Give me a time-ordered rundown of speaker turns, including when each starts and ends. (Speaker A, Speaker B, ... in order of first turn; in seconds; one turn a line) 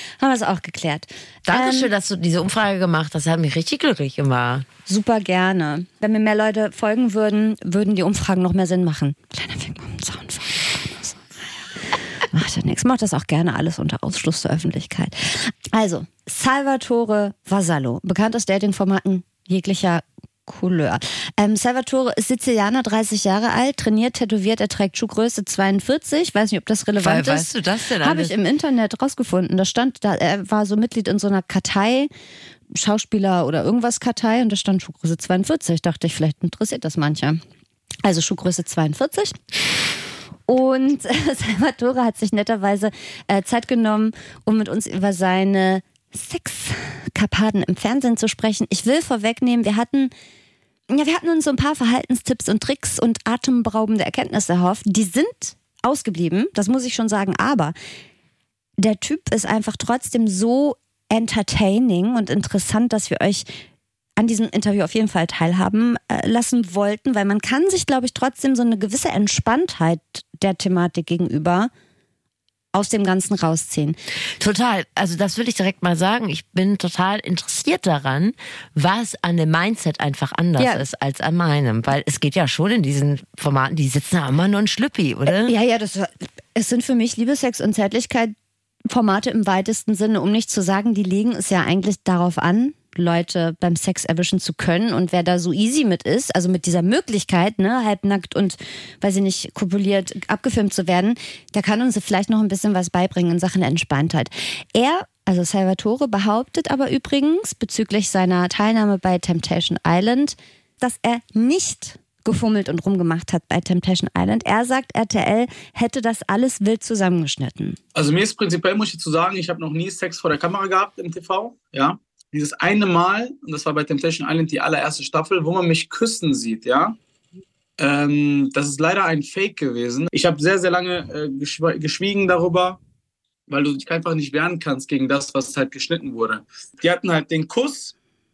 Speaker A: 0.2-1.9
Speaker B: 1.5-4.7
Speaker A: 4.9-11.3
Speaker A: 12.3-32.1
Speaker B: 27.0-28.3
Speaker A: 32.7-37.4
Speaker A: 38.0-39.4
Speaker A: 40.5-50.1
Speaker A: 50.9-57.7
Speaker A: 58.8-63.5
Speaker A: 64.2-71.7
Speaker A: 72.7-74.0
Speaker B: 74.4-85.5
Speaker A: 80.6-80.8
Speaker A: 85.3-88.3
Speaker A: 88.9-117.8
Speaker C: 118.0-127.0
Speaker C: 127.8-132.8
Speaker C: 133.5-137.9